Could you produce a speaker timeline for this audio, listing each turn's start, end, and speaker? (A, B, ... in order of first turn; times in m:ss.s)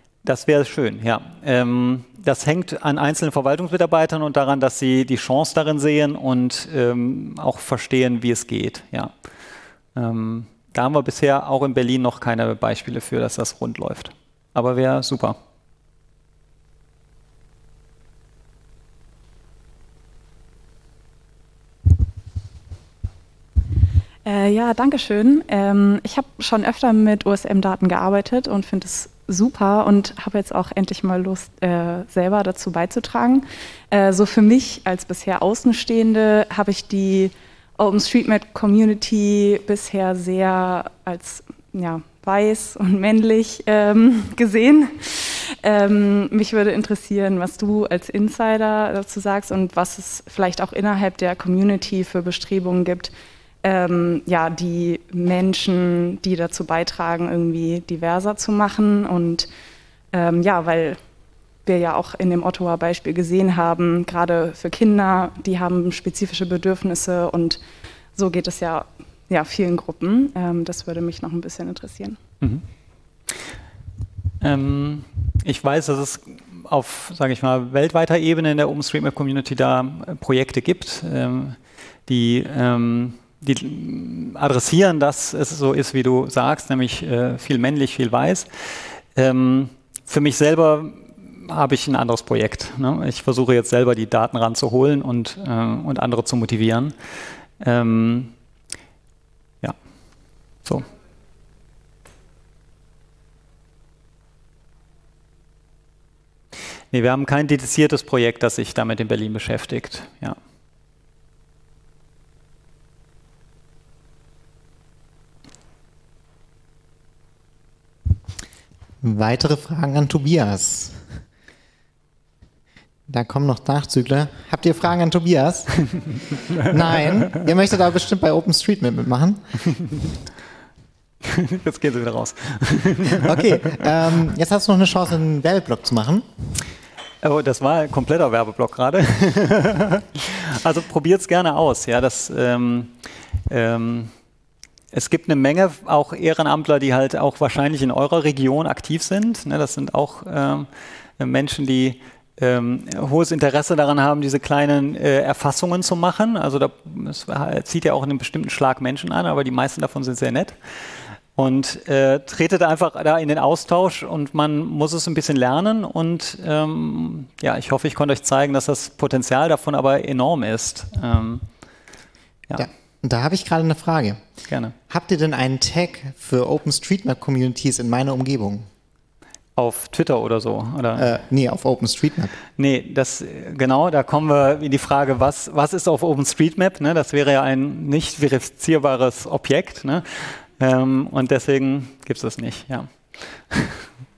0:00.2-0:09.1 A
0:09.9-0:15.4 A
0:24.2-0:53.1 B
0:53.6-0:59.5 B
1:00.1-1:01.0 B
1:01.6-1:07.6 B
1:08.1-1:12.2 B
1:14.4-1:28.5 A
1:29.1-1:36.9 A
1:37.6-1:38.3 A
1:46.9-1:50.4 A
1:59.0-2:01.0 C
2:03.1-2:05.8 C
2:06.6-2:09.7 C
2:11.2-2:13.8 A
2:13.2-2:16.2 C
2:17.2-2:22.9 A
2:23.5-2:24.1 A
2:24.9-2:30.7 A
2:31.2-2:40.6 A
2:41.4-2:51.4 A
2:52.6-2:54.2 C
2:54.5-2:54.7 A
2:54.9-2:58.7 C
2:59.6-3:01.1 A
3:00.9-3:02.3 C
3:02.6-3:12.9 A
3:13.5-3:13.8 A